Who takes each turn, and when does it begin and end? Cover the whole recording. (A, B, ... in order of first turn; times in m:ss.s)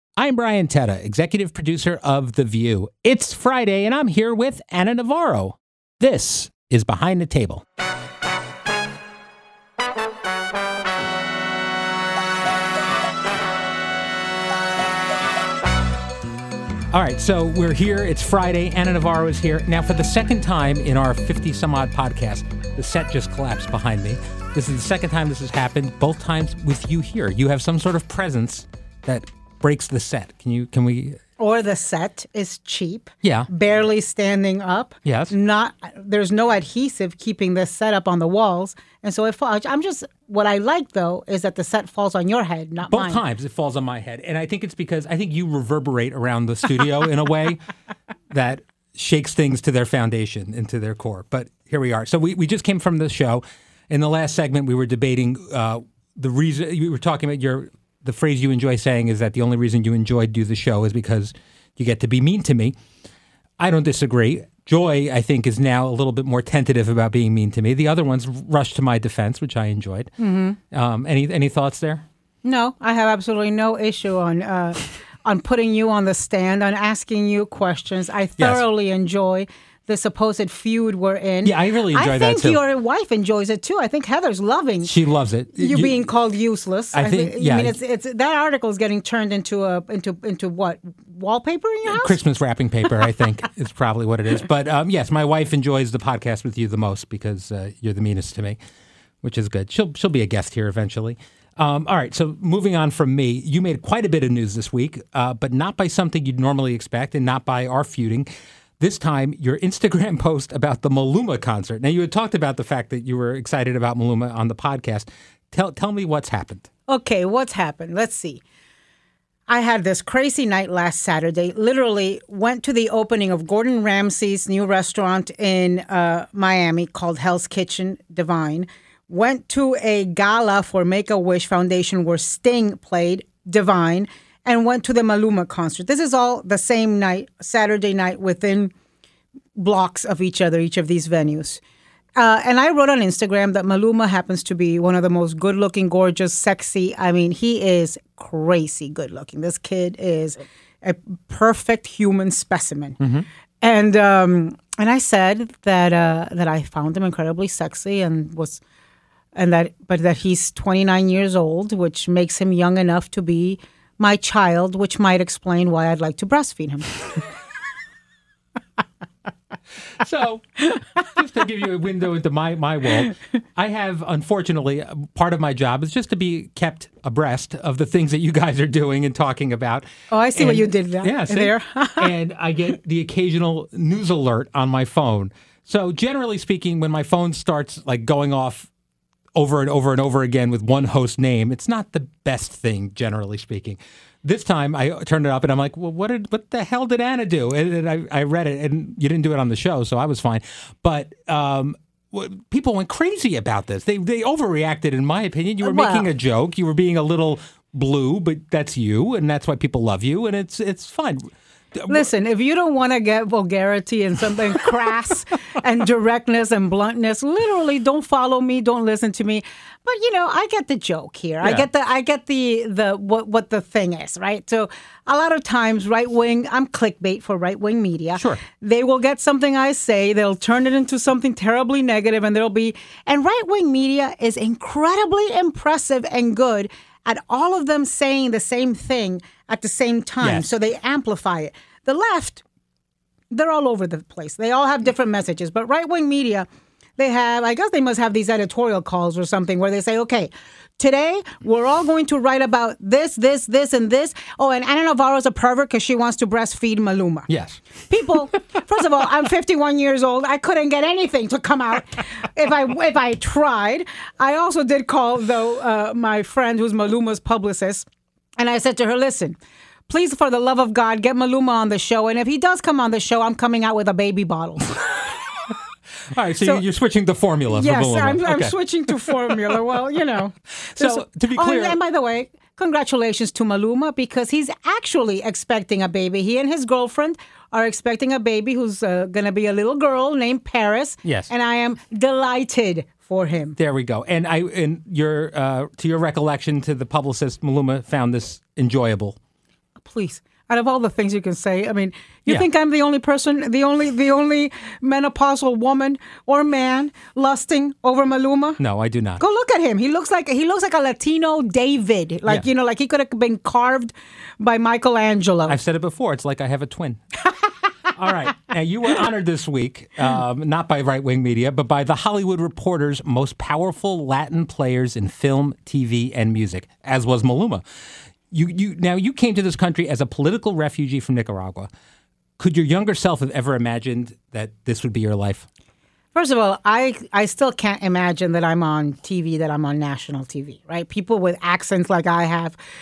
0:00.2-0:07.6 A
0:16.9-0:31.2 A
0:31.4-0:43.2 B
0:33.2-0:33.5 A
0:35.0-0:35.3 A
0:42.9-0:47.6 A
0:48.3-1:02.8 A
1:03.6-1:10.1 A
1:10.2-1:10.6 B
1:10.7-1:12.0 A
1:12.4-1:24.9 B
1:18.4-1:18.6 A
1:21.4-1:22.6 A
1:24.8-1:26.0 A
1:25.5-1:32.2 B
1:26.9-1:27.8 A
1:31.8-1:38.6 A
1:39.2-1:48.3 A
1:48.8-1:56.7 A
1:56.9-1:58.4 B
1:59.5-2:18.7 B
2:19.6-2:21.6 B
2:22.2-2:33.0 B
2:33.0-2:33.3 A
2:33.6-2:38.6 B
2:39.4-2:46.9 B
2:50.0-3:08.7 A
3:00.1-3:02.1 B
3:09.4-3:32.1 A
3:25.6-3:26.1 B
3:31.9-4:02.4 B
3:41.4-3:41.7 A
3:48.2-3:48.4 A
4:00.2-4:00.5 A
4:03.3-4:06.5 B
4:07.0-4:17.3 B
4:17.3-4:17.6 A
4:17.9-4:27.9 B
4:28.4-4:29.4 B
4:29.9-4:35.1 B
4:36.1-4:39.6 A
4:37.5-4:53.6 B
4:40.7-4:41.8 A
4:51.0-4:51.3 A
4:53.6-4:59.2 A
4:59.8-5:08.6 B
5:08.6-5:09.2 A
5:09.2-5:15.6 B
5:15.5-5:17.0 A
5:17.9-5:27.6 A
5:28.3-5:31.7 A
5:32.4-5:35.5 A
5:36.2-5:42.6 B